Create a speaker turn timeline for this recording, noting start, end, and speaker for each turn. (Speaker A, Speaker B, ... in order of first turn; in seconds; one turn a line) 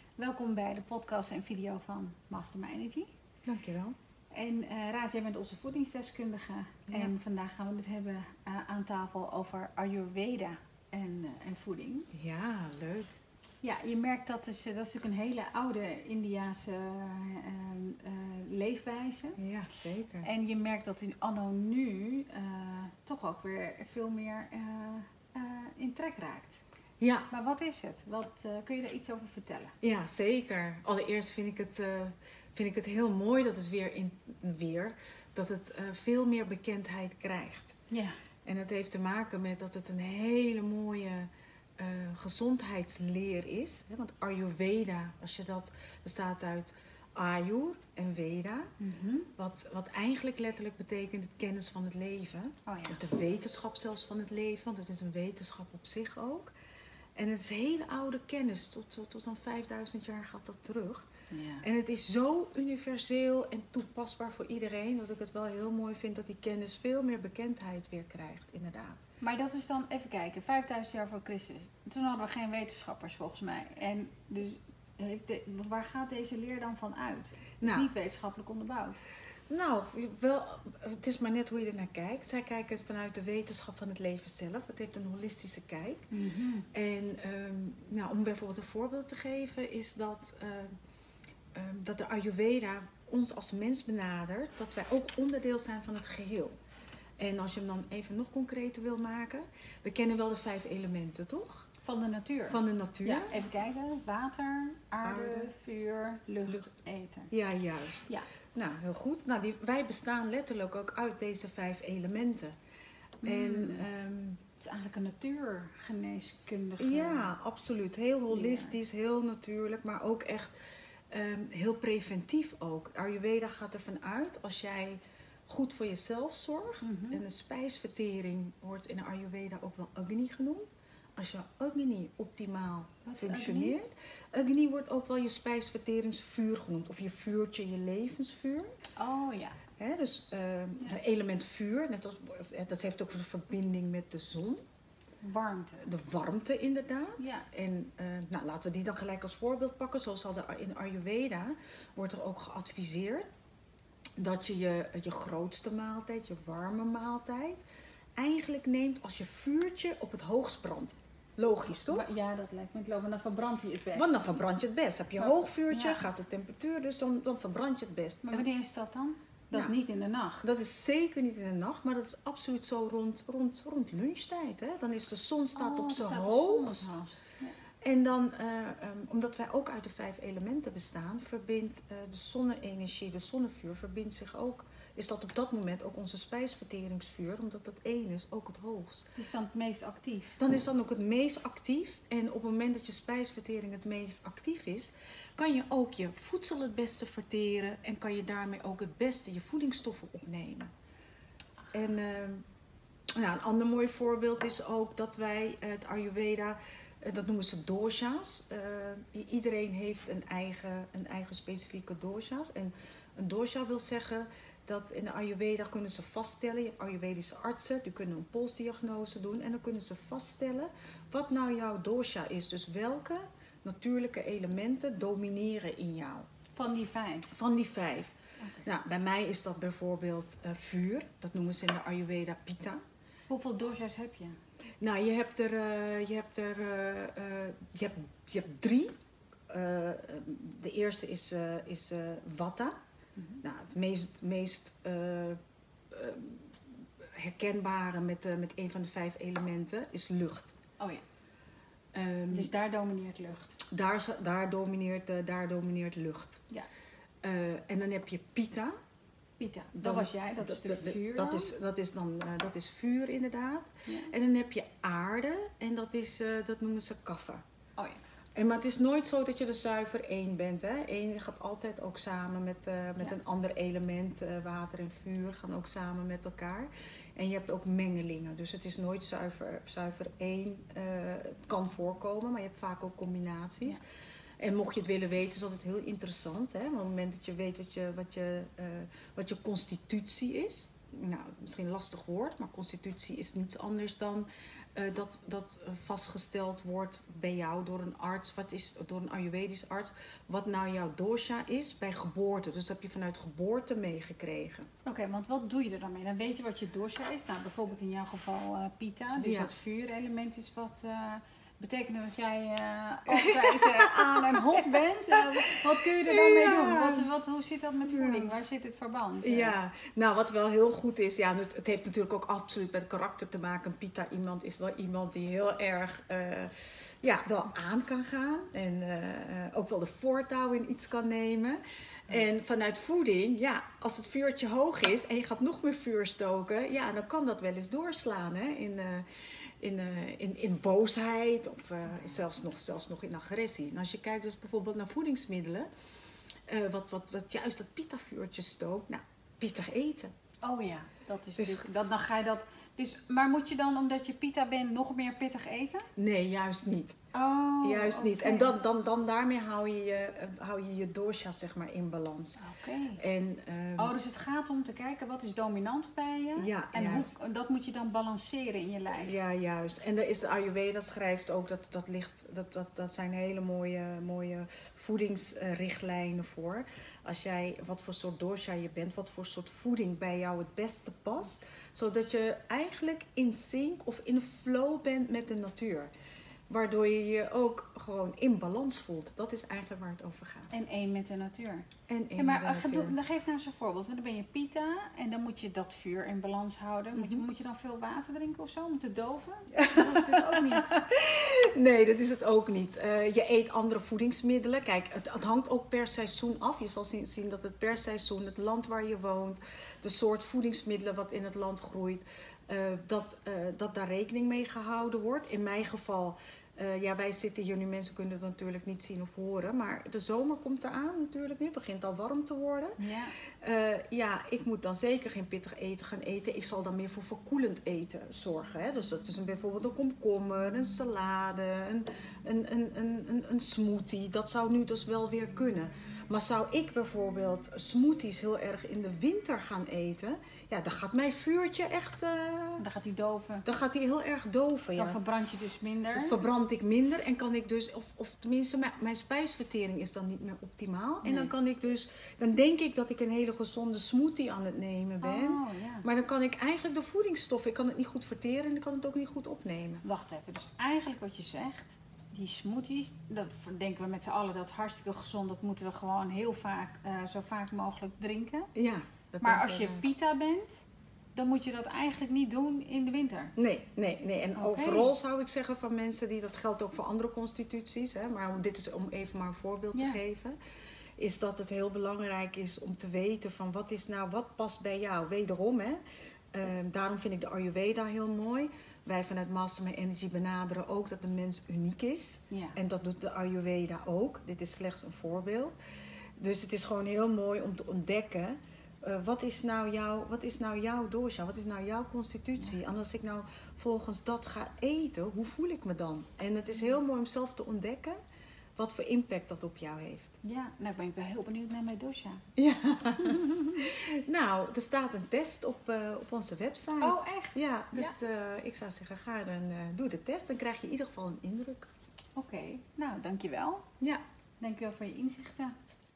Speaker A: 0.2-3.1
Speaker B: 3.5-3.9
Speaker A: 4.3-12.1
Speaker B: 6.9-7.1
Speaker B: 12.1-13.1
Speaker A: 13.6-19.4
Speaker B: 19.4-20.3
Speaker A: 20.2-26.6
Speaker B: 27.0-27.3
Speaker A: 27.3-29.7
Speaker B: 29.8-37.8
Speaker A: 37.9-38.2
Speaker B: 38.4-48.7
Speaker A: 48.8-49.3
Speaker B: 49.4-56.5
Speaker A: 52.7-53.0
Speaker B: 57.1-61.1
Speaker A: 61.3-61.6
Speaker B: 61.6-69.0
Speaker A: 69.2-79.0
Speaker B: 77.6-77.9
Speaker B: 79.5-86.1
Speaker A: 86.1-86.7
Speaker B: 86.7-90.7
Speaker B: 91.5-96.5
Speaker B: 97.2-101.7
Speaker A: 101.8-107.3
Speaker B: 102.5-103.3
Speaker B: 105.0-105.5
Speaker B: 107.3-112.5
Speaker A: 113.2-113.8
Speaker B: 113.2-114.4
Speaker A: 114.6-117.3
Speaker B: 116.8-120.5
Speaker A: 118.3-118.7
Speaker B: 121.1-130.6
Speaker A: 126.8-127.2
Speaker B: 131.2-138.7
Speaker A: 133.0-133.8
Speaker A: 139.0-139.6
Speaker B: 139.8-144.6
Speaker A: 145.2-145.9
Speaker B: 145.8-153.3
Speaker A: 147.2-147.4
Speaker B: 154.2-157.6
Speaker B: 158.2-162.1
Speaker A: 161.7-164.2
Speaker B: 163.9-168.5
Speaker A: 165.2-166.1
Speaker A: 168.2-170.4
Speaker B: 170.4-176.9
Speaker A: 175.5-177.6
Speaker B: 177.8-189.1
Speaker A: 189.2-190.4
Speaker B: 190.4-200.7
Speaker B: 201.7-202.4
Speaker B: 203.1-226.2
Speaker A: 226.5-227.3
Speaker B: 227.3-232.8
Speaker A: 228.4-228.7
Speaker A: 233.3-234.4
Speaker B: 234.8-238.9
Speaker B: 239.5-242.7
Speaker A: 243.2-243.4
Speaker B: 243.4-245.4
Speaker B: 245.9-250.6
Speaker B: 251.9-252.5
Speaker A: 252.3-253.6
Speaker B: 253.7-256.4
Speaker B: 257.2-258.7
Speaker A: 259.4-261.5
Speaker B: 259.8-267.4
Speaker A: 263.9-264.1
Speaker B: 268.4-283.8
Speaker B: 284.4-304.7
Speaker A: 304.8-319.6
Speaker B: 309.2-309.5
Speaker B: 313.1-315.2
Speaker B: 316.0-317.1
Speaker B: 317.9-318.4
Speaker B: 319.2-339.1
Speaker B: 339.6-345.7
Speaker B: 346.5-350.1
Speaker A: 350.4-355.9
Speaker B: 351.4-351.7
Speaker B: 355.9-357.0
Speaker A: 357.1-358.6
Speaker B: 357.6-362.4
Speaker A: 362.4-363.0
Speaker B: 363.0-363.9
Speaker A: 363.8-369.1
Speaker B: 366.4-367.1
Speaker B: 369.0-385.9
Speaker B: 386.5-390.5
Speaker A: 390.5-400.8
Speaker B: 391.9-392.9
Speaker B: 396.9-397.2
Speaker B: 399.5-422.8
Speaker A: 422.8-423.1
Speaker B: 423.4-442.6
Speaker A: 442.6-443.4
Speaker B: 443.4-445.0
Speaker A: 444.8-446.2
Speaker B: 445.9-459.8
Speaker A: 451.0-451.3
Speaker A: 455.0-455.9
Speaker A: 459.8-468.5
Speaker B: 468.5-469.9
Speaker A: 469.2-470.6
Speaker A: 471.1-473.3
Speaker B: 473.4-480.4
Speaker A: 474.3-474.9
Speaker A: 479.7-480.0
Speaker B: 481.0-485.8
Speaker B: 486.3-495.5
Speaker A: 492.3-492.6
Speaker B: 496.2-508.0
Speaker B: 508.6-510.2
Speaker A: 510.2-512.2
Speaker B: 512.4-521.7
Speaker A: 516.8-518.0
Speaker A: 522.1-523.7
Speaker A: 524.4-525.5